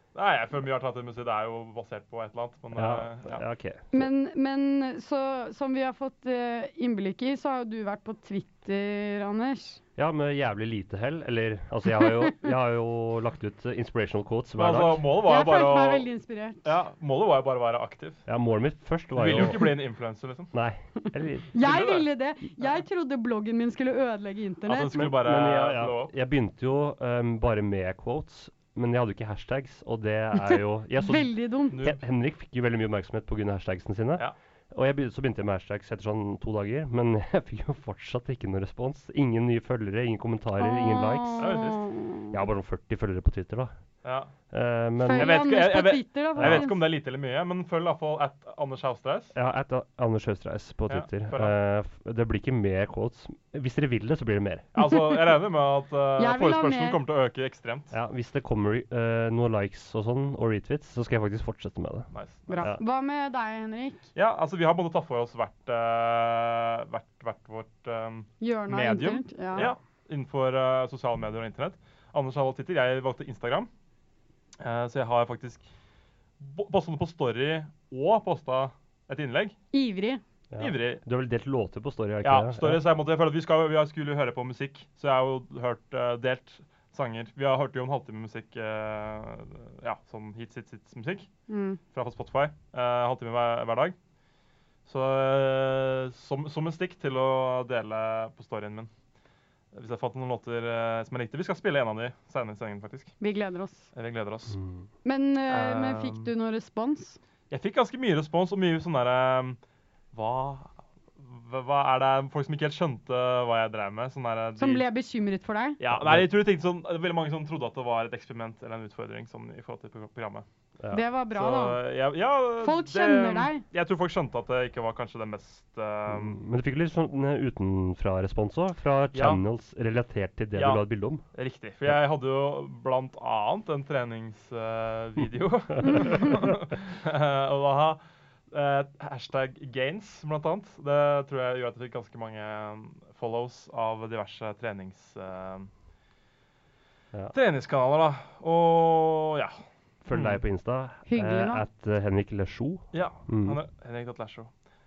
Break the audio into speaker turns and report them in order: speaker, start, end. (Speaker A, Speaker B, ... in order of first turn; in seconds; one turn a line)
Speaker A: 0.1-3.4
Speaker B: 2.7-4.1
Speaker C: 3.9-9.8
Speaker B: 9.9-15.0
Speaker A: 14.6-16.1
Speaker C: 15.2-16.7
Speaker A: 16.6-18.2
Speaker B: 18.3-19.7
Speaker A: 19.1-20.5
Speaker B: 20.5-21.5
Speaker C: 21.5-24.9
Speaker A: 21.6-22.1
Speaker A: 24.7-26.1
Speaker B: 24.9-41.6
Speaker C: 31.0-31.8
Speaker A: 31.7-32.0
Speaker C: 40.6-42.3
Speaker A: 41.4-41.9
Speaker B: 42.3-43.7
Speaker A: 44.0-44.3
Speaker B: 44.5-45.5
Speaker C: 45.0-46.8
Speaker A: 45.1-49.3
Speaker B: 46.4-46.7
Speaker B: 49.3-54.7
Speaker A: 50.9-51.5
Speaker A: 54.7-57.9
Speaker C: 56.2-57.0
Speaker B: 57.9-62.1
Speaker A: 62.1-62.7
Speaker C: 62.5-64.0
Speaker A: 64.1-73.7
Speaker C: 68.4-69.7
Speaker A: 74.6-75.6
Speaker A: 76.4-79.5
Speaker C: 79.7-80.2
Speaker B: 80.5-82.8
Speaker A: 80.6-81.0
Speaker A: 82.2-91.3
Speaker C: 91.5-91.8
Speaker A: 91.9-94.0
Speaker A: 94.8-98.9
Speaker A: 99.7-103.1
Speaker C: 103.2-103.9
Speaker A: 103.9-104.5
Speaker B: 104.5-104.8
Speaker C: 105.0-107.2
Speaker A: 105.5-106.3
Speaker A: 107.5-109.6
Speaker A: 110.1-114.8
Speaker C: 114.6-115.8
Speaker A: 115.8-120.5
Speaker B: 115.9-116.3
Speaker C: 120.9-121.8
Speaker A: 121.3-126.4
Speaker C: 122.6-123.6
Speaker B: 126.1-131.2
Speaker A: 129.1-129.4
Speaker A: 130.5-138.0
Speaker A: 138.5-145.7
Speaker A: 147.3-149.6
Speaker B: 150.0-153.6
Speaker A: 150.1-150.4
Speaker C: 151.1-151.6
Speaker A: 152.9-154.5